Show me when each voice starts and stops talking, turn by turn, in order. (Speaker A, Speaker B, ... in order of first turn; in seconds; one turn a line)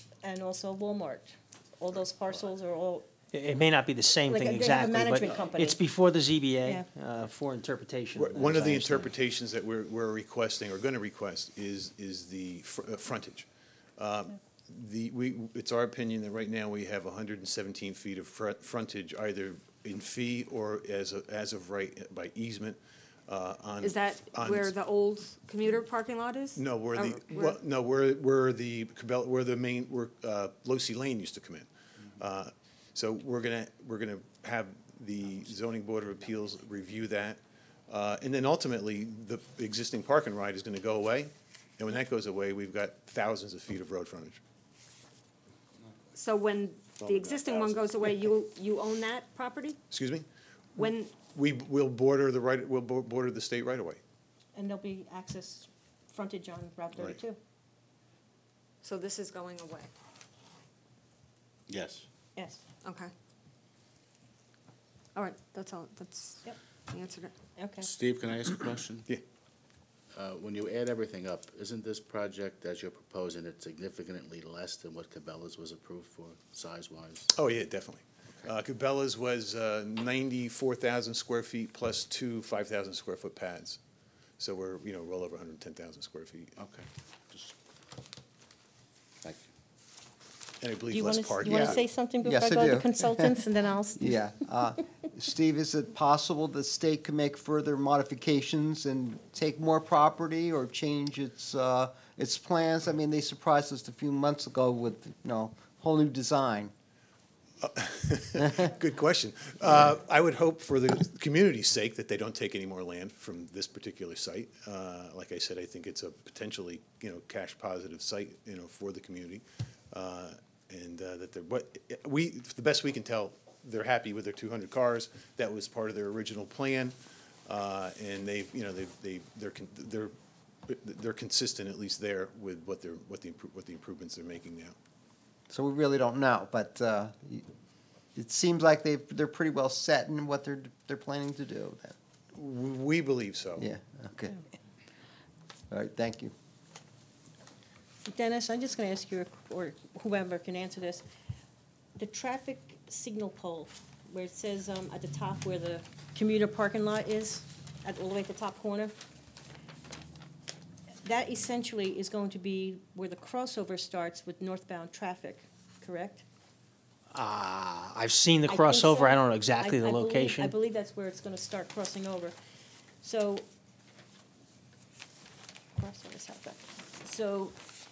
Speaker A: 0.2-3.1
Speaker B: 3.3-9.1
Speaker A: 4.2-5.8
Speaker C: 8.1-13.5
Speaker C: 14.0-24.7
Speaker D: 23.8-27.6
Speaker C: 26.6-44.4
Speaker D: 46.1-49.8
Speaker C: 47.0-47.9
Speaker C: 49.9-54.0
Speaker D: 50.8-51.2
Speaker A: 54.5-57.4
Speaker D: 58.8-59.9
Speaker E: 61.7-62.0
Speaker A: 62.4-62.6
Speaker D: 62.8-63.1
Speaker D: 65.2-67.3
Speaker A: 67.6-67.9
Speaker E: 67.8-69.1
Speaker E: 70.1-77.3
Speaker C: 77.3-83.8
Speaker C: 84.4-86.5
Speaker E: 86.6-87.5
Speaker C: 90.6-91.8
Speaker A: 90.9-94.1
Speaker F: 92.2-93.4
Speaker F: 94.0-106.7
Speaker C: 107.6-127.0
Speaker C: 127.5-130.1
Speaker C: 130.7-134.7
Speaker F: 135.5-137.4
Speaker F: 138.1-141.9
Speaker C: 142.3-143.7
Speaker F: 143.6-144.4
Speaker F: 145.7-146.3
Speaker A: 148.0-151.0
Speaker A: 152.0-158.9
Speaker A: 161.0-166.2
Speaker B: 167.1-170.5
Speaker A: 168.5-172.3
Speaker A: 173.0-173.4
Speaker A: 175.8-177.6